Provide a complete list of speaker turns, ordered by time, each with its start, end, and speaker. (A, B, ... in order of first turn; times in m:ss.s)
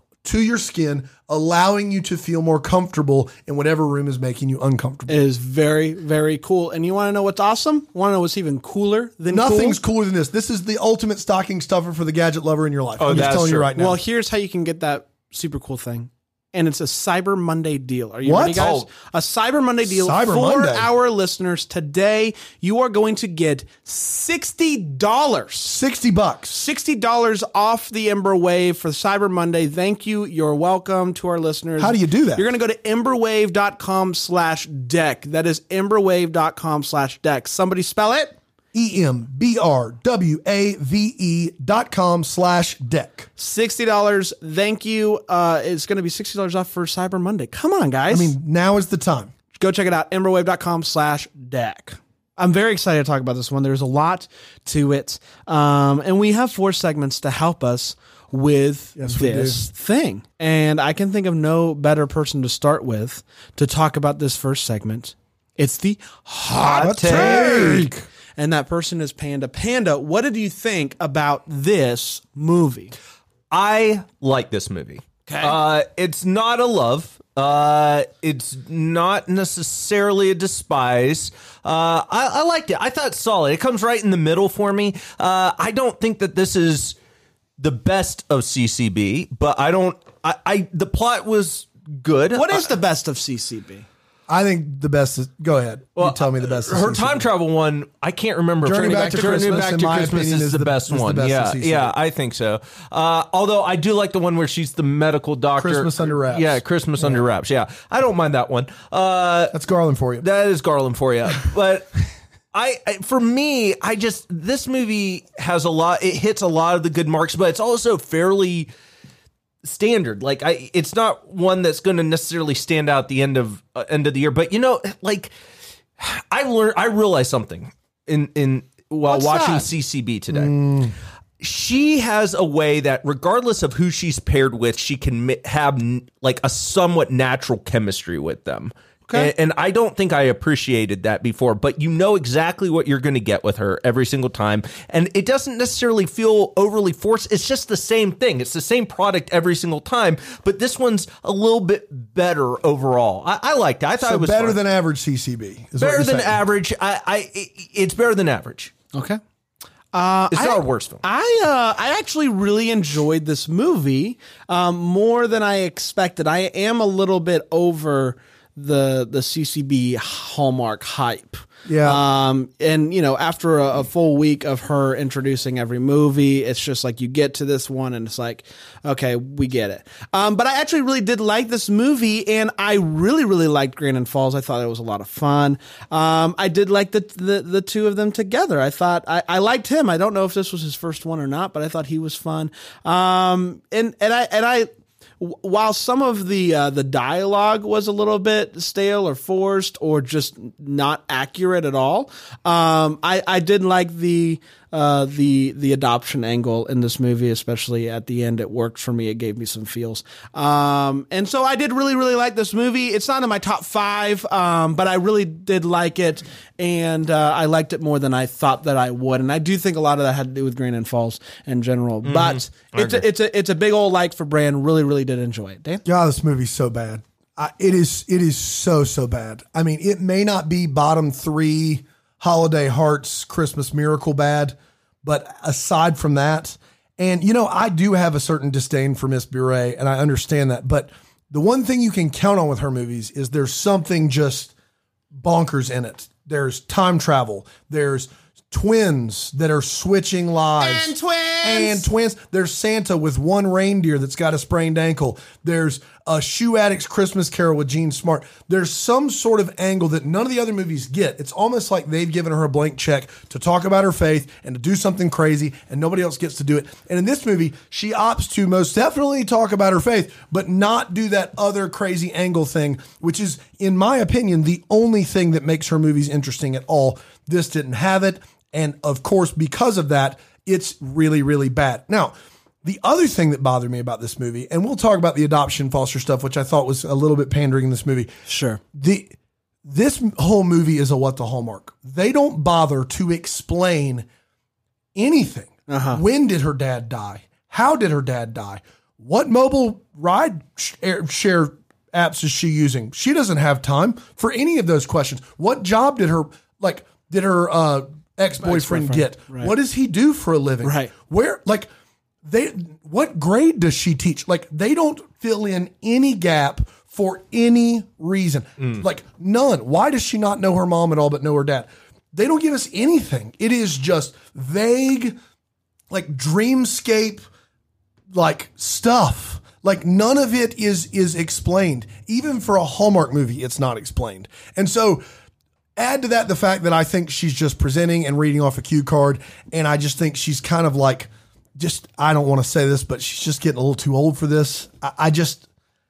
0:00.2-0:05.2 A
0:05.1-0:09.8 B
0:09.3-0:14.0 A
0:13.0-0:13.7 C
0:13.2-0:25.8 B
0:18.2-0:18.7 A
0:18.6-0:18.9 C
0:19.9-0:20.9 A
0:25.6-0:26.6 A
0:26.5-0:38.4 B
0:31.8-0:32.4 A
0:38.7-0:43.3 A
0:43.4-0:48.4 B
0:48.1-0:49.3 A
0:49.5-1:12.9 B
0:59.0-0:59.6 A
1:06.6-1:07.9 C
1:06.8-1:08.0 A
1:13.5-1:27.0 C
1:15.3-1:15.6 B
1:27.6-1:32.7 C
1:32.3-1:33.9 B
1:34.3-1:37.3 A
1:36.0-1:49.6 C
1:38.6-1:41.9 A
1:38.8-1:39.6 B
1:45.6-1:47.2 A
1:49.5-1:50.2 A
1:50.2-1:58.7 C
1:59.6-2:05.3 C
2:06.0-2:10.7 C
2:09.1-2:09.7 B
2:10.3-2:10.9 A
2:11.4-2:34.6 C
2:34.0-2:36.4 A
2:35.8-2:38.7 C
2:38.9-2:39.2 B
2:39.9-3:14.7 B
2:40.3-2:41.0 C
2:51.7-2:52.0 A
3:15.2-3:45.8 B
3:42.0-3:43.1 C
3:45.8-4:04.5 A
4:05.1-4:48.1 A
4:10.6-4:11.9 B
4:48.3-4:48.6 B
4:48.7-4:49.1 A
4:49.6-4:54.1 A
4:55.0-5:11.7 A
4:55.7-4:56.0 B
5:08.4-5:09.5 B
5:10.6-5:10.9 B
5:12.2-5:25.2 A
5:25.9-5:27.2 A
5:28.1-5:35.0 A
5:35.8-5:45.4 A